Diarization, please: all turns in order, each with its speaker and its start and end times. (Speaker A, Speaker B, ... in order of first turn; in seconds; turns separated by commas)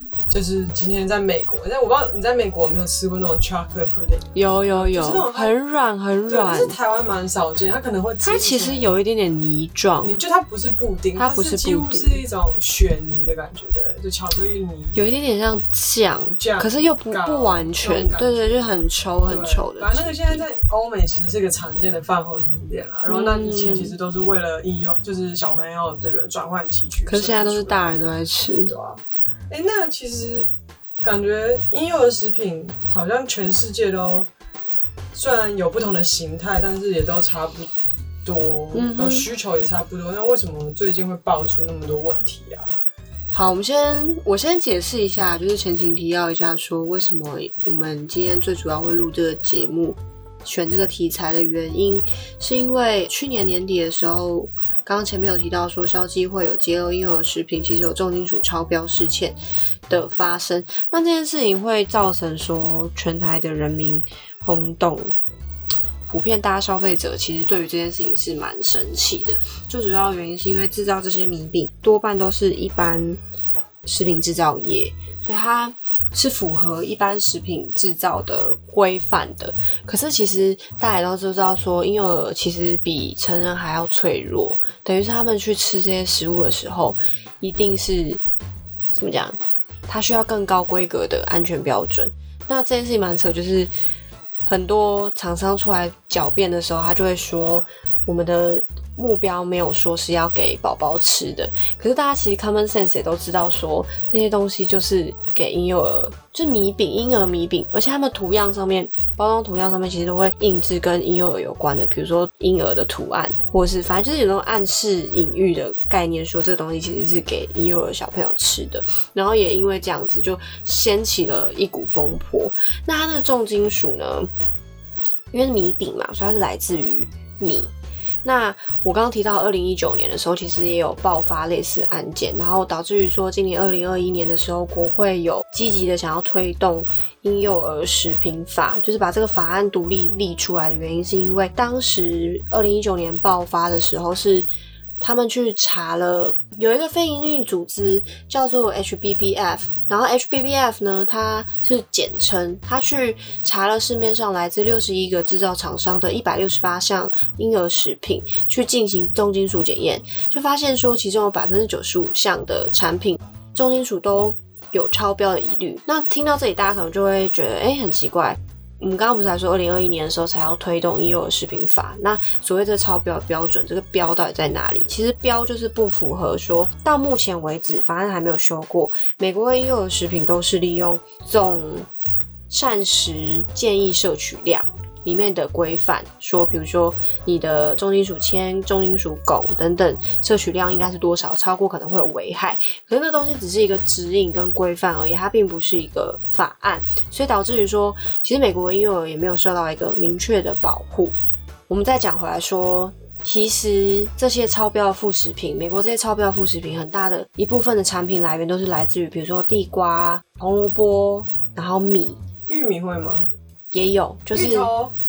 Speaker A: 0.3-5.5, Speaker B: 4.3-6.8, Speaker A: 6.3-9.0, Speaker B: 8.2-10.2, Speaker A: 10.0-15.0, Speaker B: 11.2-12.2, Speaker B: 14.9-20.4, Speaker A: 16.4-18.6, Speaker A: 19.2-30.5, Speaker B: 23.1-23.9, Speaker B: 27.1-28.7, Speaker A: 31.0-34.3, Speaker A: 35.1-37.7, Speaker A: 38.2-42.7, Speaker B: 38.7-39.3, Speaker B: 43.3-59.4, Speaker B: 59.9-65.1, Speaker B: 66.0-73.2, Speaker B: 73.8-88.2, Speaker B: 88.9-93.7, Speaker B: 94.5-124.3, Speaker B: 125.3-127.7, Speaker B: 128.2-144.5, Speaker B: 145.0-181.9, Speaker B: 182.5-201.1, Speaker B: 201.7-212.2, Speaker A: 212.5-213.3, Speaker B: 213.7-214.7, Speaker A: 214.3-214.9